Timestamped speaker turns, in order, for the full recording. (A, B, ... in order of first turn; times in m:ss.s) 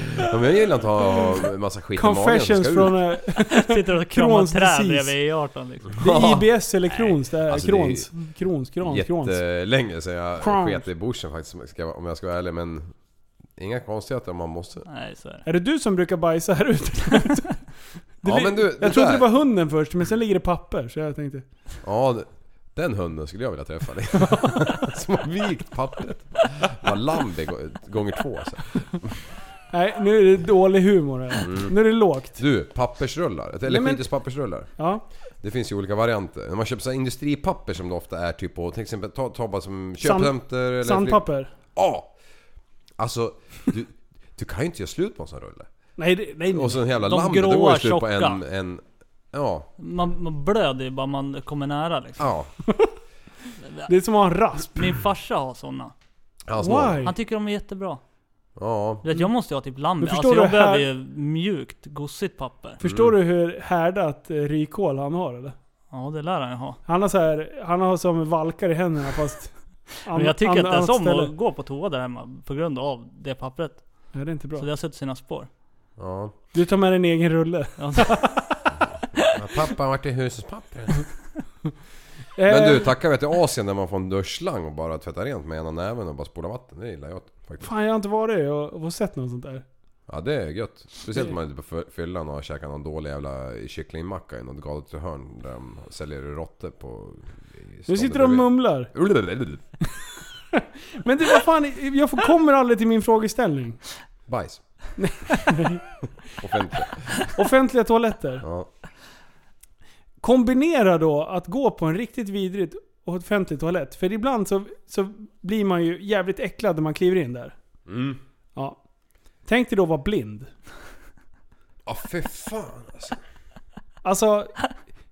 0:00.2-0:03.0 A
0:02.0-0:05.1 B
0:03.5-0:06.0 C
0:06.0-0:09.4 B
0:06.0-0:06.5 A
0:07.5-0:08.1 A
0:08.8-0:12.9 A
0:10.4-0:10.8 B
0:13.6-0:14.8 A
0:14.9-0:15.4 C
0:15.4-0:17.6 B
0:18.2-0:21.4 B
0:18.2-0:19.3 A
0:21.8-0:29.2 A
0:29.7-0:32.4 B
0:31.4-0:31.7 A
0:32.3-0:34.7 A
0:33.7-0:34.0 B
0:34.8-0:35.0 B
0:35.4-0:41.2 A
0:40.0-0:41.5 B
0:41.8-0:42.1 A
0:43.0-0:45.7 A
0:46.0-0:46.8 B
0:46.5-0:49.7 A
0:47.0-0:48.4 C
0:49.8-0:52.3 C
0:52.2-0:52.5 A
0:52.7-0:53.0 B
0:53.9-0:54.9 B
0:54.7-0:55.9 C
0:56.5-0:57.0 A
0:56.6-0:57.1 B
0:57.0-0:58.0 C
0:58.6-0:59.0 A
0:59.0-1:02.8 C
1:00.0-1:00.9 B
1:02.8-1:05.6 B
1:02.8-1:03.1 A
1:05.9-1:06.8 C
1:06.9-1:11.3 B
1:10.1-1:13.8 C
1:14.1-1:14.6 B
1:14.6-1:15.5 C
1:16.0-1:16.3 A
1:16.5-1:18.6 B
1:17.8-1:18.3 C
1:19.2-1:21.1 A
1:22.4-1:22.9 B
1:22.5-1:27.7 A
1:27.6-1:29.6 B
1:30.1-1:39.6 A
1:37.9-1:38.9 B
1:40.5-1:43.8 B
1:44.3-1:44.6 A
1:45.0-1:45.8 B
1:46.4-1:47.1 A
1:47.3-1:48.4 B
1:48.4-1:48.7 A
1:50.2-1:57.6 B
1:57.9-1:58.2 A
1:59.4-2:00.5 B
2:01.9-2:03.2 A
2:04.0-2:04.6 B